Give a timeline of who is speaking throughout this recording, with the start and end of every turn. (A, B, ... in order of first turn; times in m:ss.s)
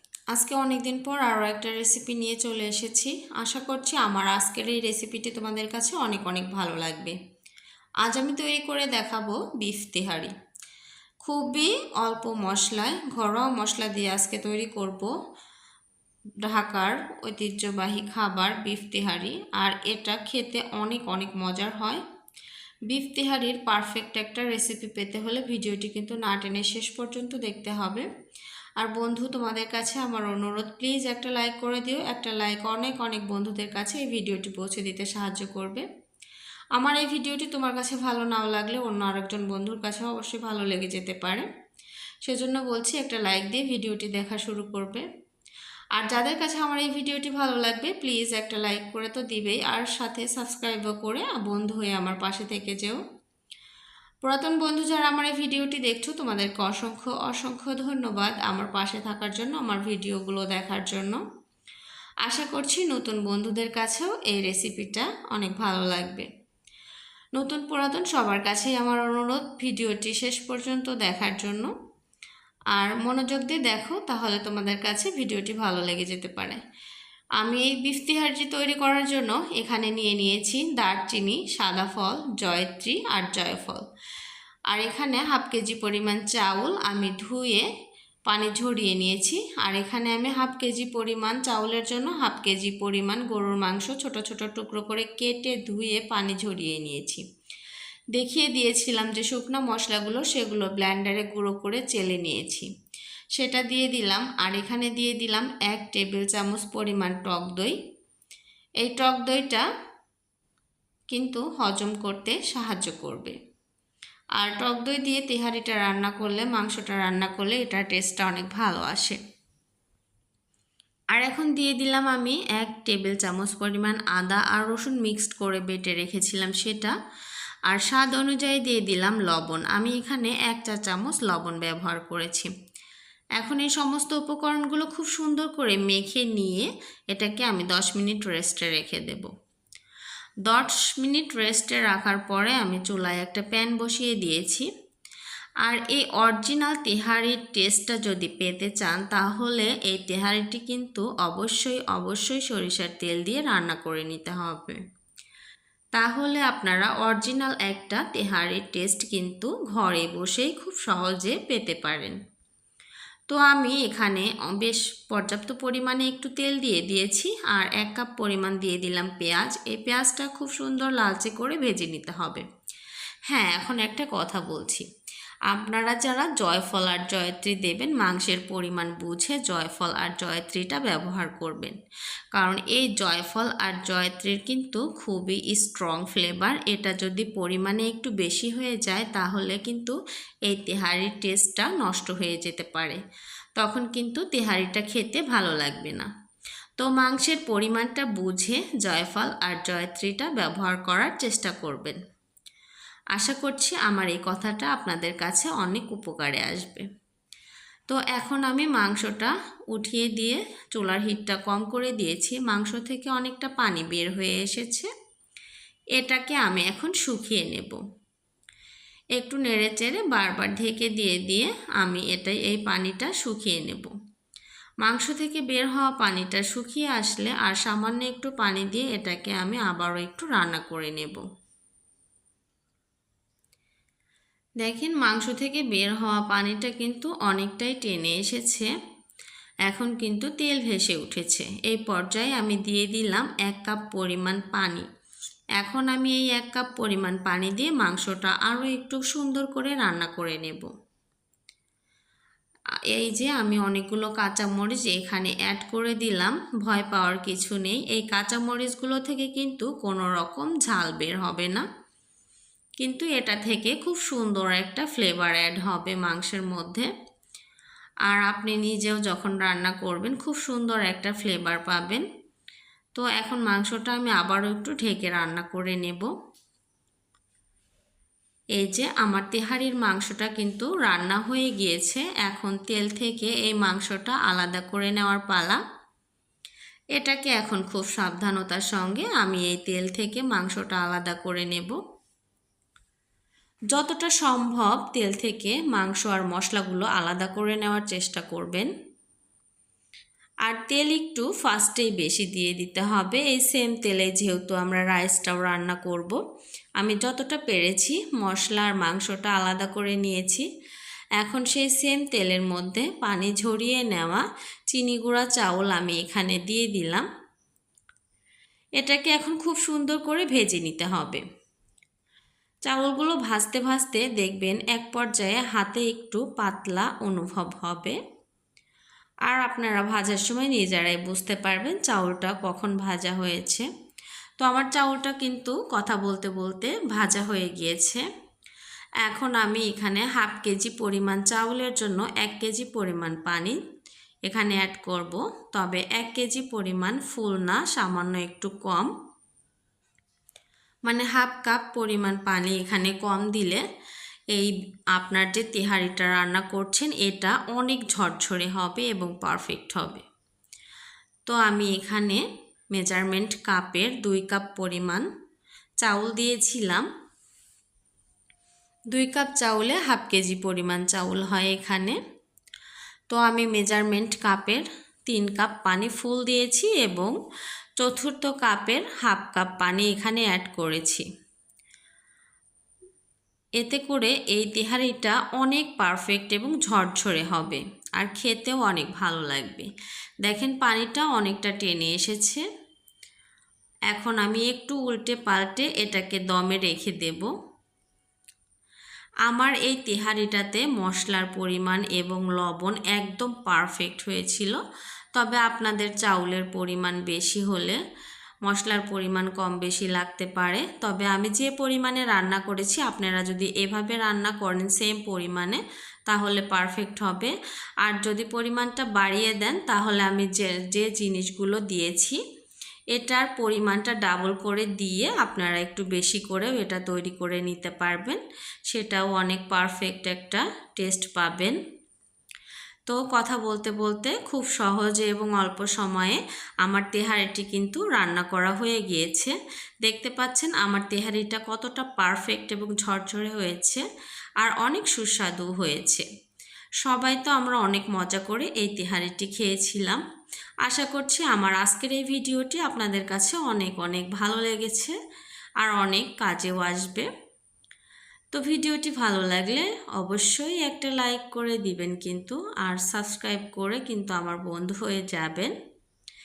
0:00.3-0:07.2 A
0:08.0-0:10.3 A
0:11.2-0:15.1 A
0:16.4-0:22.0 A
0:22.9-0:28.1 A
0:28.8-0:35.8 A
0:36.7-0:41.4 A
0:42.2-0:45.0 A
0:45.9-0:53.0 A
0:54.2-1:01.2 A
1:02.2-1:06.3 A
1:07.4-1:11.7 A
1:12.7-1:16.6 A
1:17.4-1:23.8 A
1:24.7-1:27.7 A
1:28.3-1:37.2 A
1:38.1-1:42.7 A
1:43.3-1:47.8 A
1:48.8-1:49.7 A
1:51.1-1:53.4 A
1:54.4-1:59.2 A
2:01.1-2:06.9 A
2:07.6-2:12.5 A
2:13.4-2:19.3 A
2:20.4-2:24.7 A
2:25.6-2:34.8 A
2:36.0-2:42.2 A
2:43.3-2:52.4 A
2:53.3-2:54.8 A
2:55.5-3:01.8 A
3:02.3-3:13.0 A
3:13.6-3:16.1 A
3:16.8-3:22.0 A
3:23.1-3:26.9 A
3:27.9-3:34.9 A
3:36.0-3:37.8 A
3:39.2-3:43.9 A
3:44.8-3:51.2 A
3:54.6-3:58.7 A
3:59.6-4:04.8 A
4:05.6-4:10.7 A
4:12.9-4:21.6 A
4:22.8-4:26.9 A
4:28.0-4:32.0 A
4:32.9-4:36.1 A
4:38.6-4:45.6 A
4:47.0-4:51.8 A
4:53.7-4:58.7 A
5:00.5-5:06.2 A
5:06.8-5:10.5 A
5:11.2-5:17.1 A
5:18.8-5:21.2 A
5:22.7-5:28.0 A
5:29.3-5:33.7 A
5:34.4-5:38.0 A
5:39.0-5:43.6 A
5:44.3-5:48.9 A
5:50.9-5:53.6 A
5:54.3-6:00.0 A
6:01.3-6:05.1 A
6:05.8-6:06.9 A
6:08.9-6:12.0 A
6:13.1-6:17.2 A
6:17.8-6:21.0 A
6:23.6-6:29.7 A
6:30.2-6:32.4 A
6:33.9-6:37.3 A
6:39.3-6:44.6 A
6:45.1-6:47.8 A
6:48.4-7:02.2 A
7:02.9-7:11.6 A
7:12.9-7:23.8 A
7:24.4-7:26.1 A
7:26.8-7:30.0 A
7:30.6-7:34.9 A
7:35.6-7:37.1 A
7:38.3-7:45.5 A